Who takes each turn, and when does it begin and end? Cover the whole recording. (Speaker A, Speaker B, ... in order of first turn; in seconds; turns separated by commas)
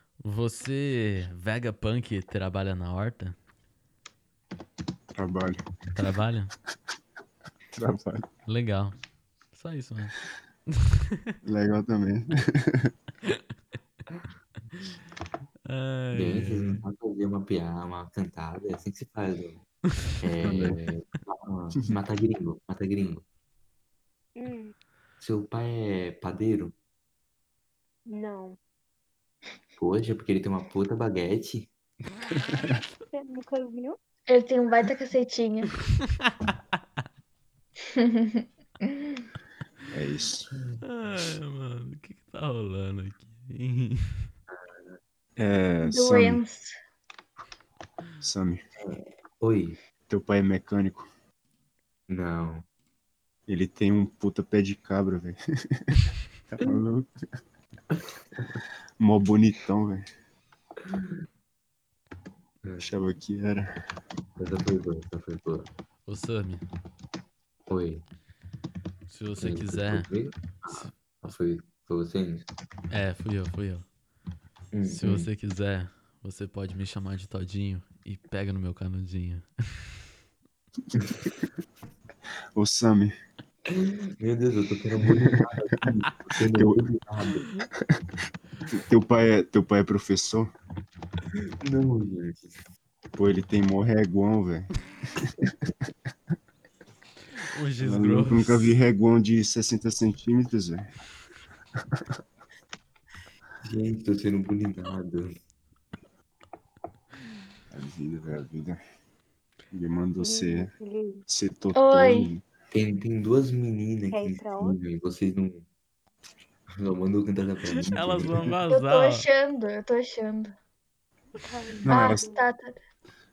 Speaker A: 0.2-3.4, Speaker B: 5.1-5.6, Speaker A: 5.9-6.5, Speaker B: 7.7-8.3, Speaker A: 8.5-8.9, Speaker A: 9.5-10.1, Speaker A: 10.7-11.3, Speaker B: 11.4-12.9, Speaker A: 15.7-16.8, Speaker C: 16.1-19.6, Speaker C: 20.2-23.2, Speaker B: 20.4-20.8, Speaker D: 24.4-24.7, Speaker C: 25.2-26.7, Speaker D: 28.1-28.6, Speaker C: 29.8-31.7, Speaker D: 33.1-34.0, Speaker E: 34.3-35.7, Speaker A: 36.0-36.3, Speaker E: 38.0-39.2, Speaker B: 39.9-40.5, Speaker C: 40.5-40.8, Speaker A: 40.8-44.2, Speaker C: 44.5-45.0, Speaker B: 45.4-46.4, Speaker E: 45.8-46.7, Speaker B: 48.2-48.6, Speaker C: 48.8-49.8, Speaker B: 50.1-51.1, Speaker C: 52.1-52.6, Speaker B: 53.5-55.8, Speaker B: 56.5-57.1, Speaker C: 57.9-58.6, Speaker B: 59.0-60.0, Speaker C: 60.8-61.1, Speaker C: 62.6-63.0, Speaker B: 62.8-63.7, Speaker C: 64.4-65.7, Speaker A: 66.0-66.6, Speaker C: 67.7-68.0, Speaker A: 69.1-70.1, Speaker C: 69.4-72.5, Speaker A: 72.9-73.8, Speaker C: 74.7-75.3, Speaker A: 74.8-79.5, Speaker C: 80.9-81.3, Speaker B: 82.5-83.1, Speaker C: 83.7-87.5, Speaker B: 85.1-85.8, Speaker B: 86.5-86.9, Speaker B: 88.7-90.5, Speaker C: 91.4-92.6, Speaker B: 93.1-95.5, Speaker A: 97.4-98.8, Speaker B: 97.8-100.9, Speaker C: 103.6-105.3, Speaker B: 107.7-108.8, Speaker B: 109.7-110.7, Speaker D: 110.2-111.2, Speaker B: 111.3-112.4, Speaker E: 111.7-112.3, Speaker C: 112.7-115.7, Speaker D: 114.1-114.8, Speaker C: 116.8-118.5, Speaker A: 117.8-119.2, Speaker E: 118.7-120.5, Speaker D: 121.4-122.4, Speaker B: 121.8-122.2, Speaker E: 121.9-122.8